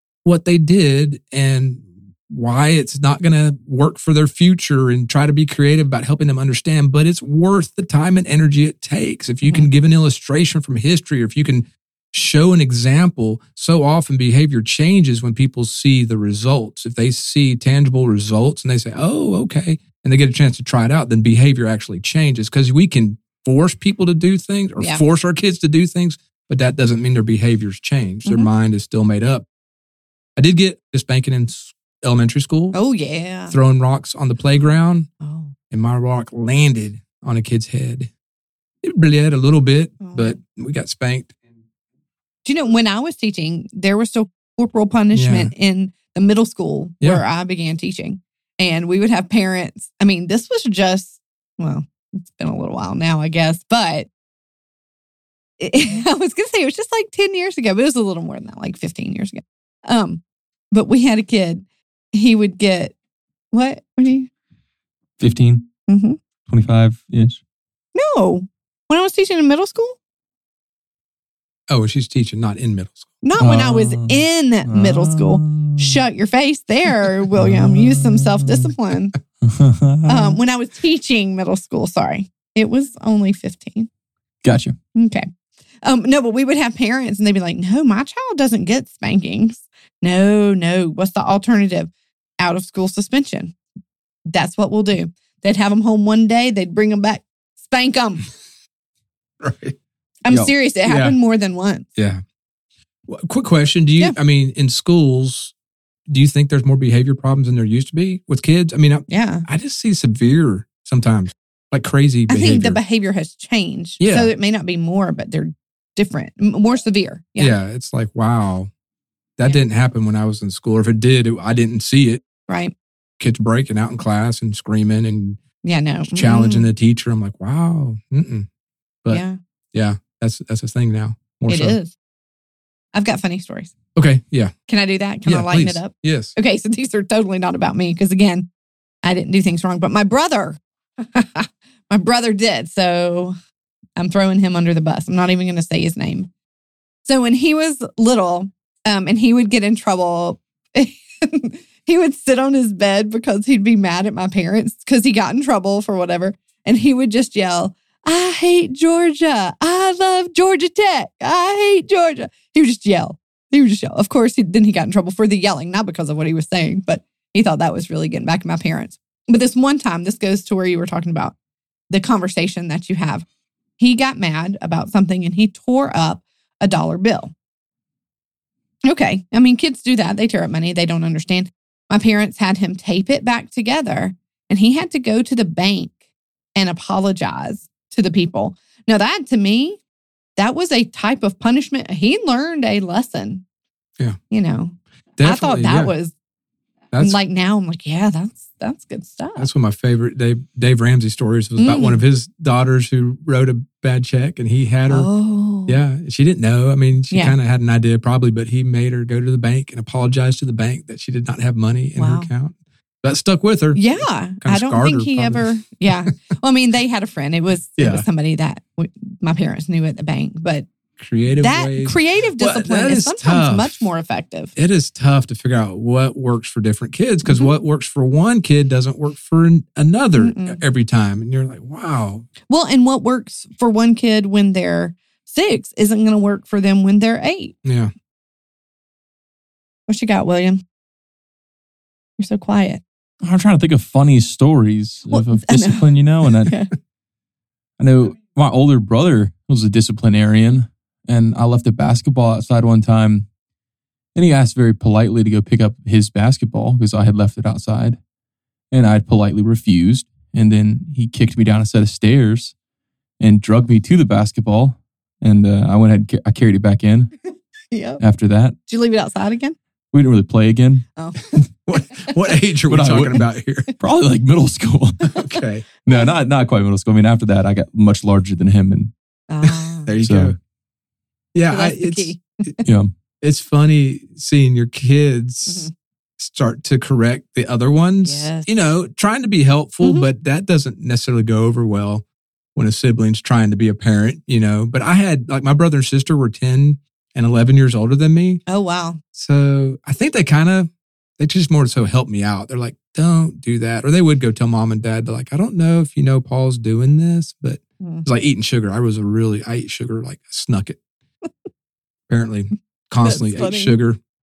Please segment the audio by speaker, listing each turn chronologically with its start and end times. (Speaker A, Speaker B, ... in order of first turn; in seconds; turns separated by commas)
Speaker A: 0.2-29.5, Speaker B: 24.8-25.0, Speaker A: 30.4-32.8, Speaker B: 32.7-33.6, Speaker A: 33.5-35.1, Speaker B: 35.2-35.5, Speaker A: 35.7-38.1, Speaker A: 38.8-41.4, Speaker B: 40.0-40.4, Speaker B: 42.5-54.1, Speaker A: 45.1-45.5, Speaker B: 55.6-63.0, Speaker B: 63.5-64.3, Speaker C: 65.2-65.7, Speaker B: 65.9-66.2, Speaker C: 66.5-67.4, Speaker B: 68.0-70.0, Speaker A: 71.7-73.2, Speaker B: 73.2-79.2, Speaker C: 73.4-76.0, Speaker C: 77.3-78.7, Speaker C: 79.4-80.4, Speaker B: 80.1-83.9, Speaker C: 84.4-84.8, Speaker B: 85.0-85.3, Speaker B: 85.8-93.6, Speaker B: 94.3-98.3, Speaker A: 99.4-99.8, Speaker B: 100.2-101.9, Speaker A: 100.8-101.2, Speaker A: 103.1-105.5, Speaker A: 106.1-112.8, Speaker B: 109.1-109.5, Speaker B: 112.3-117.5, Speaker A: 114.0-114.3, Speaker A: 117.4-118.7, Speaker A: 119.4-122.2, Speaker B: 122.5-122.8, Speaker A: 123.2-125.4, Speaker B: 125.6-126.7, Speaker A: 126.1-128.5, Speaker B: 129.1-129.4, Speaker A: 129.7-131.8, Speaker B: 131.5-131.9, Speaker B: 132.9-133.7, Speaker A: 134.0-134.5, Speaker B: 134.7-138.5, Speaker A: 135.3-136.3, Speaker B: 139.0-143.4, Speaker B: 144.0-146.3, Speaker B: 147.1-171.4, Speaker B: 171.9-173.2, Speaker B: 173.8-177.3, Speaker B: 178.9-185.9, Speaker B: 186.6-189.8, Speaker B: 190.4-193.4, Speaker B: 194.3-196.1, Speaker A: 195.2-195.9, Speaker A: 196.9-197.2, Speaker B: 197.0-199.5, Speaker A: 199.4-205.1, Speaker B: 201.6-202.0, Speaker B: 204.9-205.8, Speaker A: 205.7-215.5, Speaker B: 207.1-207.4, Speaker B: 212.0-212.3, Speaker B: 213.8-220.7, Speaker A: 217.8-218.1, Speaker A: 221.0-223.9, Speaker B: 221.4-224.5, Speaker A: 224.6-232.3, Speaker B: 227.2-227.5, Speaker B: 230.2-230.6, Speaker B: 232.5-237.6, Speaker A: 237.7-237.9, Speaker B: 239.9-240.6, Speaker B: 242.2-242.8, Speaker C: 243.2-246.5, Speaker B: 245.1-245.9, Speaker B: 246.4-246.7, Speaker C: 247.8-253.3, Speaker C: 254.2-258.0, Speaker C: 258.7-262.6, Speaker C: 263.2-267.1, Speaker B: 267.7-268.0, Speaker C: 268.0-268.6, Speaker B: 268.7-269.6, Speaker C: 269.9-271.4, Speaker B: 271.0-271.3, Speaker A: 271.7-273.8, Speaker C: 272.7-273.2, Speaker C: 273.8-275.2, Speaker A: 275.1-275.6, Speaker C: 275.9-278.9, Speaker B: 279.3-279.9, Speaker A: 279.5-280.4, Speaker C: 280.0-280.3, Speaker A: 281.3-282.2, Speaker B: 281.5-282.6, Speaker C: 282.6-282.9, Speaker A: 283.2-285.7, Speaker B: 285.5-285.7, Speaker A: 286.2-298.4, Speaker B: 288.0-288.7, Speaker B: 289.8-290.1, Speaker B: 298.5-299.0, Speaker A: 299.1-310.8, Speaker A: 312.1-314.0, Speaker B: 313.0-313.8